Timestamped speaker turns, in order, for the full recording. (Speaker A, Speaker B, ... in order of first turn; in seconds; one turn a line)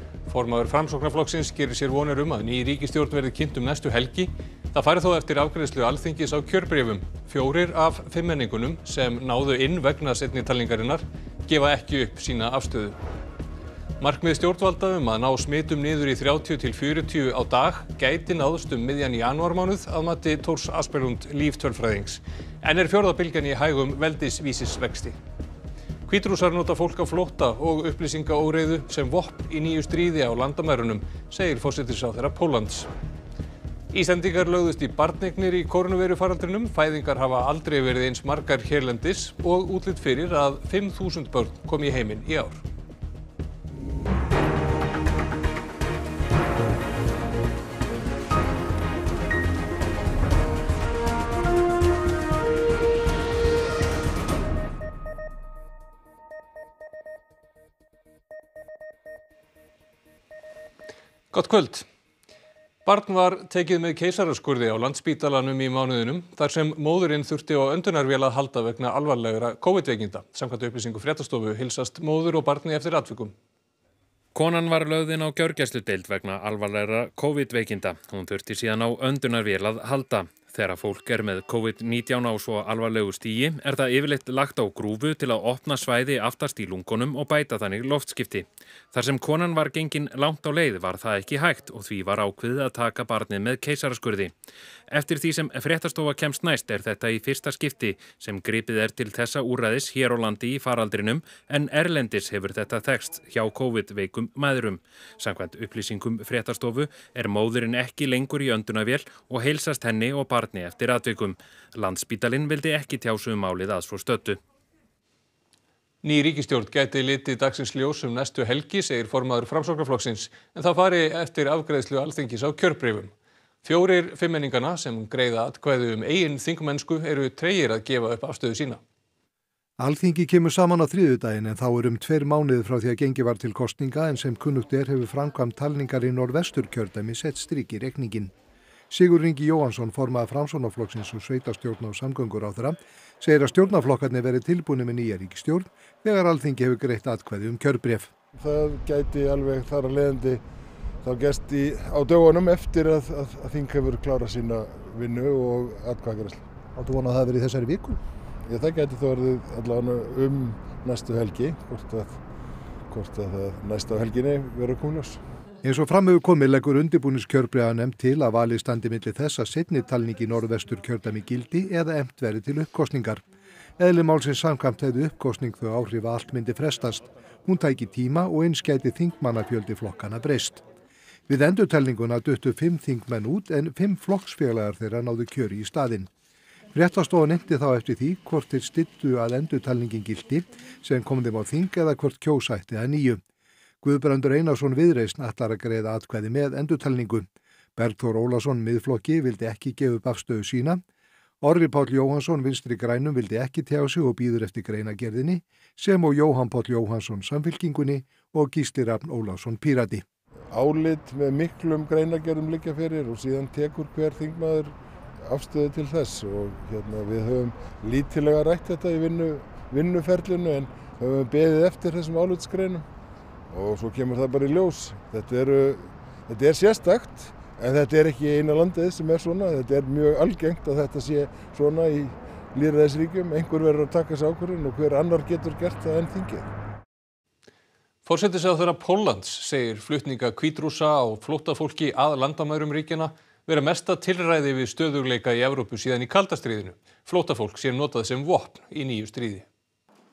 Speaker A: 0.3-13.0
Speaker A: 14.0-25.1
Speaker A: 26.1-32.9
Speaker A: 33.9-42.6
Speaker A: 61.3-61.9
Speaker A: 62.8-73.3
Speaker B: 74.3-94.3
Speaker B: 94.9-114.4
Speaker A: 116.0-123.1
Speaker A: 123.6-128.8
Speaker C: 129.8-138.3
Speaker C: 138.9-148.1
Speaker D: 148.3-150.4
Speaker D: 151.0-156.4
Speaker C: 156.8-158.0
Speaker D: 158.5-162.2
Speaker D: 162.9-165.2
Speaker C: 165.6-173.2
Speaker C: 173.8-180.6
Speaker C: 181.3-186.1
Speaker C: 186.7-193.2
Speaker C: 193.8-200.8
Speaker C: 201.4-210.0
Speaker D: 210.5-222.8
Speaker D: 223.5-236.5
Speaker A: 238.1-249.5